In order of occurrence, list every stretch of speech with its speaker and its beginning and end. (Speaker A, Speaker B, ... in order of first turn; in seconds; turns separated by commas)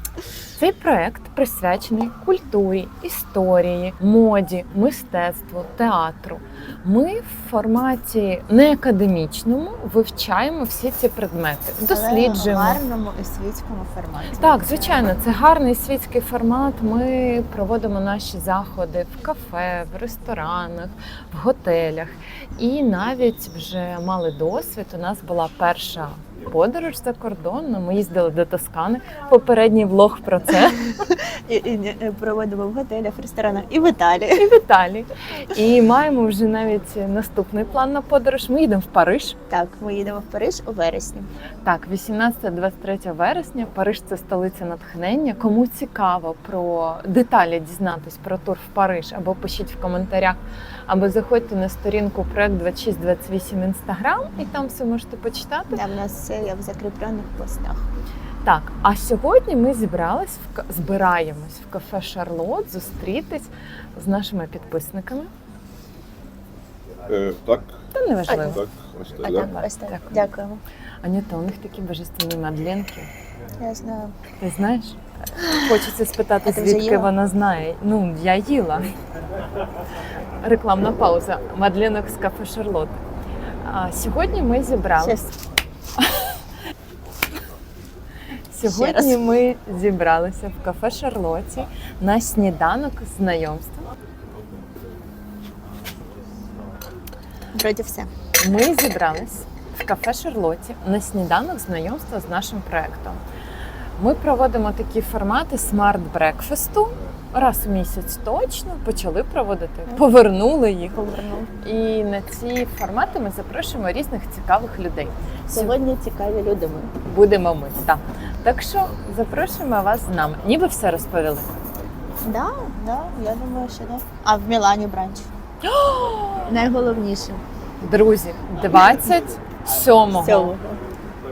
Speaker A: 0.6-12.8, Speaker B: 11.8-15.1, Speaker A: 14.3-31.0, Speaker B: 30.6-34.5, Speaker A: 34.4-39.4, Speaker B: 39.5-41.3, Speaker A: 41.6-55.8, Speaker B: 55.7-57.9, Speaker A: 58.4-65.3, Speaker C: 67.1-69.6, Speaker A: 67.9-68.6, Speaker B: 68.3-68.6, Speaker B: 69.2-70.6, Speaker A: 69.3-70.3, Speaker A: 71.0-73.1, Speaker B: 73.6-74.2, Speaker A: 74.4-78.9, Speaker B: 75.4-75.8, Speaker B: 76.5-77.1, Speaker A: 80.4-83.0, Speaker A: 83.6-85.3, Speaker B: 85.0-85.3, Speaker A: 86.0-86.3, Speaker A: 88.5-93.9, Speaker B: 88.6-89.2, Speaker B: 97.5-98.1, Speaker A: 98.4-103.2, Speaker A: 104.0-111.0, Speaker B: 110.9-111.6, Speaker A: 111.6-115.8, Speaker B: 115.5-116.9, Speaker A: 117.1-121.5, Speaker B: 122.2-125.3, Speaker A: 125.6-126.5, Speaker B: 126.5-127.4, Speaker A: 127.8-130.5, Speaker B: 130.2-130.8